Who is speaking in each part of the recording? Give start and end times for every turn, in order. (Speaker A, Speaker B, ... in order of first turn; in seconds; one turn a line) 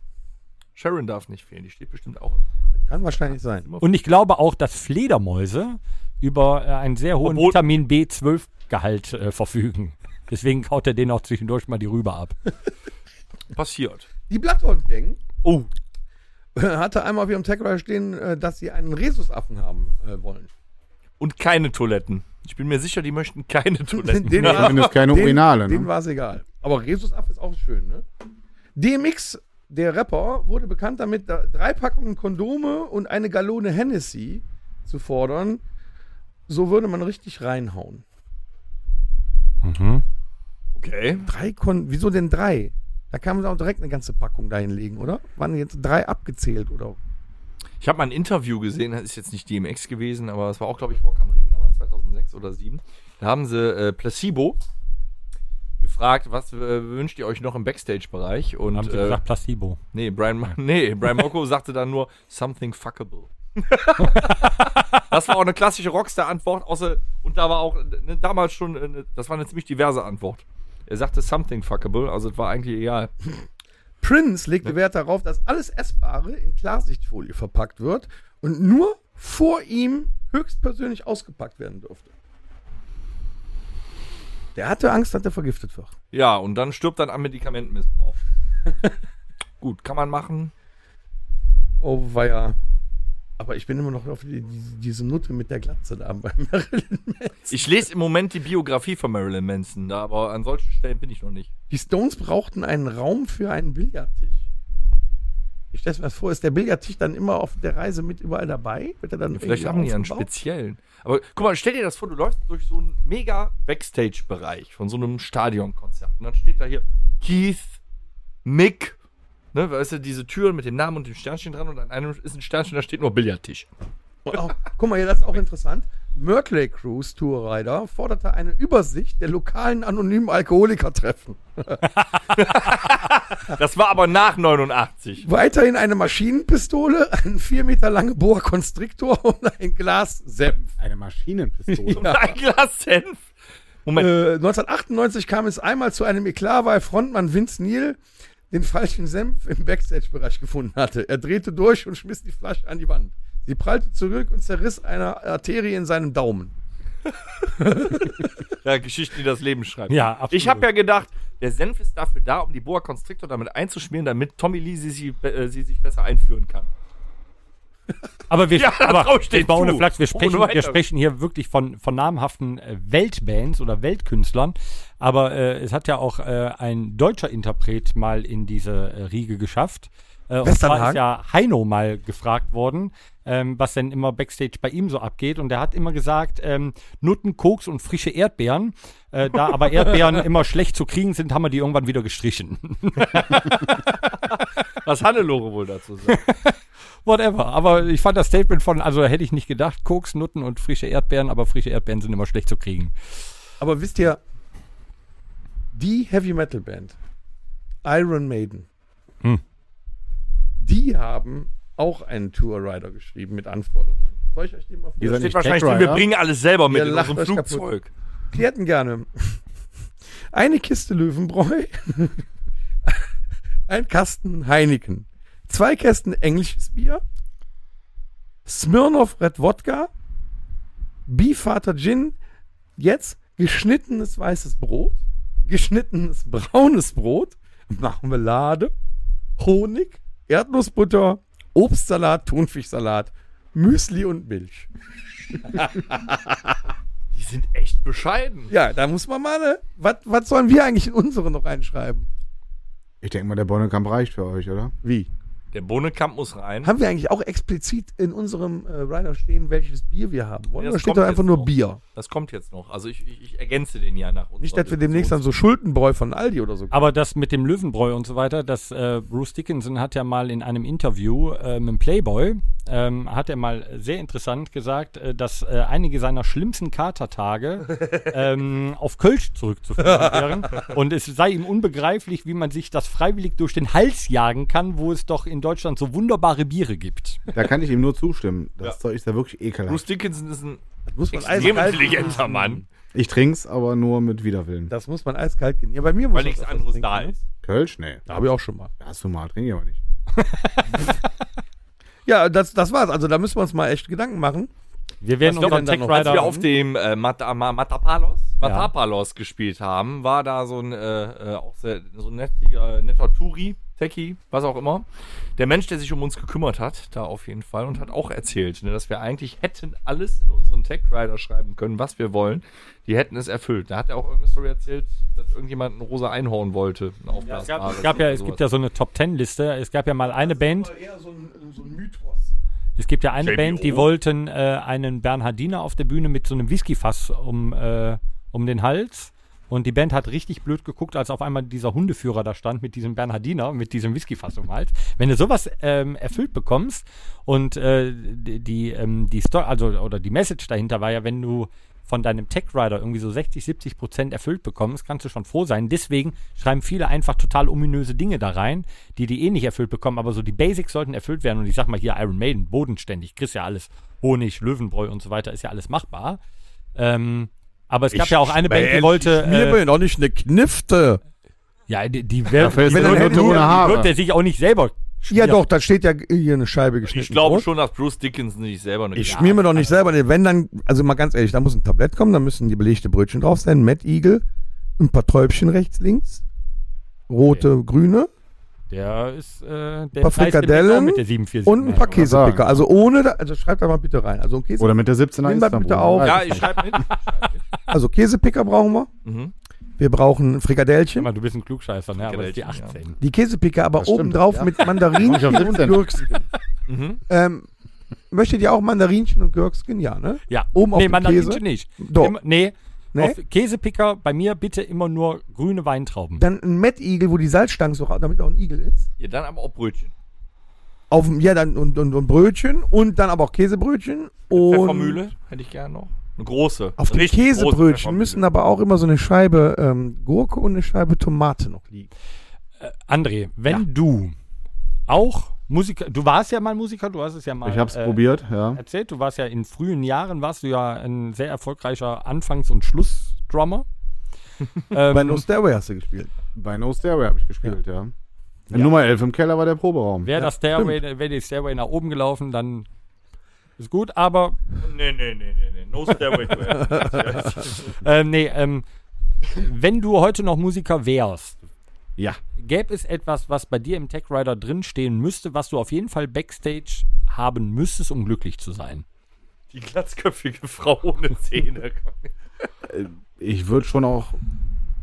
Speaker A: 0.8-2.5
Speaker B: 2.8-3.7
Speaker A: 3.2-3.8
Speaker C: 3.8-12.4
Speaker A: 7.2-7.6
Speaker A: 13.5-14.1
Speaker B: 14.3-15.2
Speaker A: 15.4-15.7
Speaker B: 16.5-20.5
Speaker A: 21.2-24.9
Speaker B: 23.9-28.0
Speaker D: 24.4-25.9
Speaker B: 28.8-35.6
Speaker B: 36.5-38.0
Speaker C: 39.6-40.0
Speaker A: 40.7-41.3
Speaker B: 41.2-47.0
Speaker A: 47.8-54.6
Speaker A: 55.8-59.2
Speaker C: 58.7-59.8
Speaker A: 59.9-73.1
Speaker C: 64.0-64.8
Speaker B: 74.0-82.1
Speaker B: 84.5-85.9
Speaker A: 86.1-88.2
Speaker A: 89.6-90.5
Speaker B: 91.8-92.5
Speaker B: 93.4-97.7
Speaker A: 97.5-101.5
Speaker B: 101.7-104.4
Speaker B: 105.7-110.3
Speaker A: 109.3-117.8
Speaker A: 118.4-119.0
Speaker A: 119.5-123.7
Speaker B: 124.2-131.9
Speaker A: 132.3-135.3
Speaker B: 135.2-140.7
Speaker D: 140.8-142.1
Speaker B: 141.7-142.3
Speaker A: 141.9-143.2
Speaker A: 143.8-144.1
Speaker B: 143.9-148.0
Speaker B: 148.5-156.5
Speaker B: 157.5-158.3
Speaker A: 158.6-166.7
Speaker C: 159.9-160.7
Speaker C: 168.3-193.9
Speaker A: 168.6-170.8
Speaker B: 180.4-181.0
Speaker A: 189.7-190.2
Speaker A: 193.0-193.8
Speaker A: 194.8-196.2
Speaker C: 196.1-202.9
Speaker B: 203.6-204.2
Speaker B: 205.7-206.9
Speaker B: 207.8-208.7
Speaker B: 210.6-215.9
Speaker D: 215.0-216.0
Speaker A: 215.1-217.9
Speaker B: 216.7-217.7
Speaker B: 218.3-219.4
Speaker B: 220.3-222.2
Speaker B: 223.7-227.0
Speaker B: 228.4-229.9
Speaker B: 231.1-232.2
Speaker B: 232.8-238.7
Speaker B: 239.4-244.7
Speaker B: 245.4-246.6
Speaker A: 247.1-248.5
Speaker B: 248.5-252.1
Speaker D: 253.0-254.7
Speaker B: 254.8-255.1
Speaker A: 255.5-256.7
Speaker B: 256.6-261.8
Speaker A: 260.6-265.2
Speaker B: 264.4-266.9
Speaker C: 266.7-287.2
Speaker D: 287.3-289.8
Speaker A: 289.7-290.6
Speaker B: 290.9-292.6
Speaker A: 291.1-292.6
Speaker D: 292.9-294.7
Speaker B: 294.7-297.1
Speaker A: 296.1-297.2
Speaker D: 297.4-298.0
Speaker B: 298.1-298.7
Speaker D: 298.8-299.8
Speaker C: 300.2-300.9
Speaker B: 302.1-304.5
Speaker C: 305.0-306.3
Speaker B: 305.2-306.5
Speaker A: 305.4-314.8
Speaker C: 308.4-308.7
Speaker A: 315.4-328.4
Speaker C: 327.2-330.7
Speaker B: 330.1-332.3
Speaker C: 332.8-366.2
Speaker A: 333.2-333.9
Speaker C: 366.8-369.6
Speaker B: 367.9-371.0
Speaker C: 371.7-375.4
Speaker D: 372.4-373.9
Speaker B: 372.4-373.8
Speaker B: 375.1-377.4
Speaker A: 376.8-379.5
Speaker B: 378.9-384.2
Speaker C: 379.0-379.8
Speaker B: 384.8-386.2
Speaker B: 387.1-388.1
Speaker C: 388.7-392.1
Speaker B: 390.0-396.4
Speaker D: 391.8-392.6
Speaker D: 394.6-396.8
Speaker A: 396.0-397.4
Speaker B: 397.7-398.9
Speaker A: 399.0-399.3
Speaker B: 399.8-401.1
Speaker C: 400.9-403.0
Speaker A: 402.0-402.8
Speaker B: 403.0-406.2
Speaker D: 403.8-406.1
Speaker A: 406.7-407.0
Speaker B: 407.1-407.5
Speaker B: 408.1-412.1
Speaker C: 410.3-416.2
Speaker B: 416.2-418.9
Speaker A: 419.0-419.9
Speaker B: 420.9-425.0
Speaker A: 424.3-428.2
Speaker B: 426.8-431.9
Speaker C: 432.6-434.1
Speaker C: 434.9-438.0
Speaker D: 437.4-438.6
Speaker C: 438.5-443.6
Speaker C: 444.7-445.2
Speaker B: 444.9-446.1
Speaker D: 446.3-447.9
Speaker D: 448.5-450.1
Speaker C: 450.0-452.7
Speaker B: 450.2-450.7
Speaker C: 453.6-454.4
Speaker A: 454.6-457.7
Speaker B: 456.6-457.3
Speaker C: 457.6-458.6
Speaker C: 459.3-461.4
Speaker C: 462.4-468.8
Speaker A: 469.5-472.1
Speaker D: 472.6-474.2